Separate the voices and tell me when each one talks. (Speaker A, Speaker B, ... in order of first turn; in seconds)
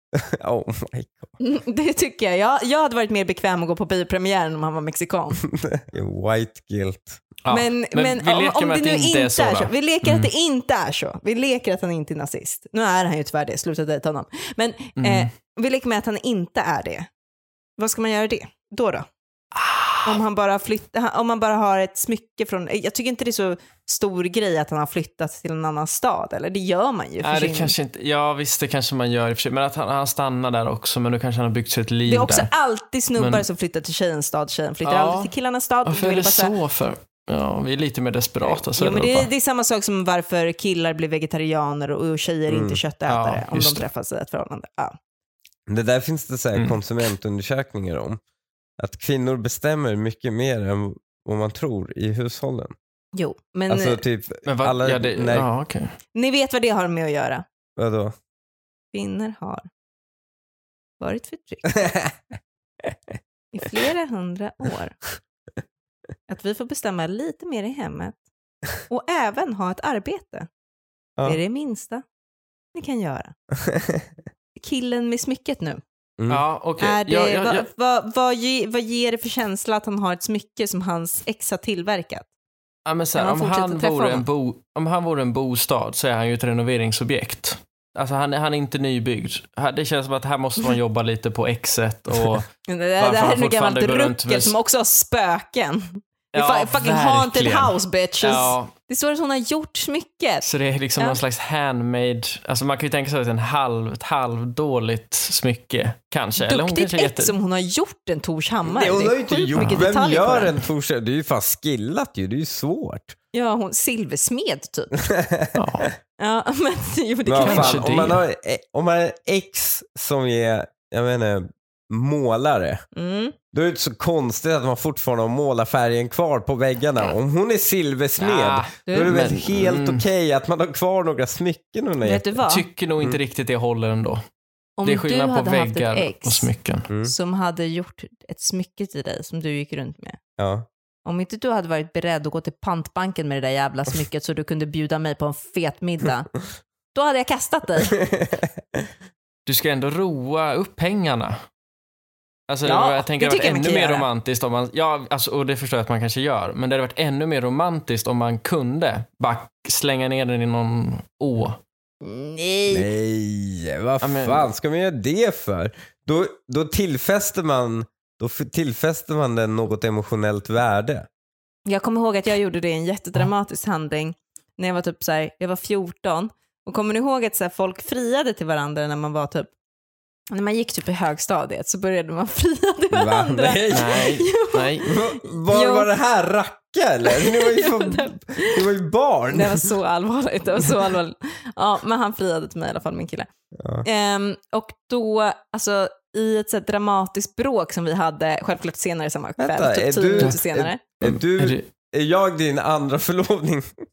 Speaker A: 0.2-1.3, 5.6-7.2, 42.5-42.8, 45.7-48.2, 48.8-52.8, 53.7-55.5, 57.8-58.1, 61.8-62.1, 73.7-74.0, 108.6-113.1, 115.0-115.9, 117.3-122.8, 123.5-132.3, 140.4-140.7, 162.7-171.1, 182.9-184.1, 184.8-189.7, 193.6-193.8, 199.4-203.7
Speaker B: 1.4-5.4, 7.5-17.1, 17.8-19.1, 20.1-27.8, 32.1-36.5, 38.4-45.0, 53.1-54.0, 56.1-57.5, 58.9-59.6, 61.0-61.7, 63.5-65.0, 66.3-68.2, 68.9-70.5, 71.2-72.0, 72.7-73.3, 74.6-75.8, 76.8-82.3, 83.1-84.3, 92.7-100.5, 106.4-110.5, 113.3-114.9, 116.2-117.8, 122.9-123.4, 128.9-129.2, 132.0-132.7, 134.8-136.5, 137.0-140.2, 141.1-146.3, 146.9-147.9, 152.6-154.1, 162.0-162.9, 171.7-179.5, 180.3-185.9, 187.1-188.7, 189.3-193.3, 193.8-200.8
Speaker C: 7.5-10.3, 15.0-15.3, 19.5-20.2, 27.2-32.5, 33.2-33.5, 34.9-35.3, 35.9-39.3, 43.1-43.8, 54.5-55.9, 76.3-77.7, 82.9-92.5, 93.0-94.5, 96.3-98.7, 100.4-107.3, 115.6-115.9, 117.4-118.2, 128.2-130.1, 132.5-134.2, 134.8-136.9, 149.4-151.4, 152.5-161.6, 164.0-164.5, 183.7-184.9, 201.0-201.7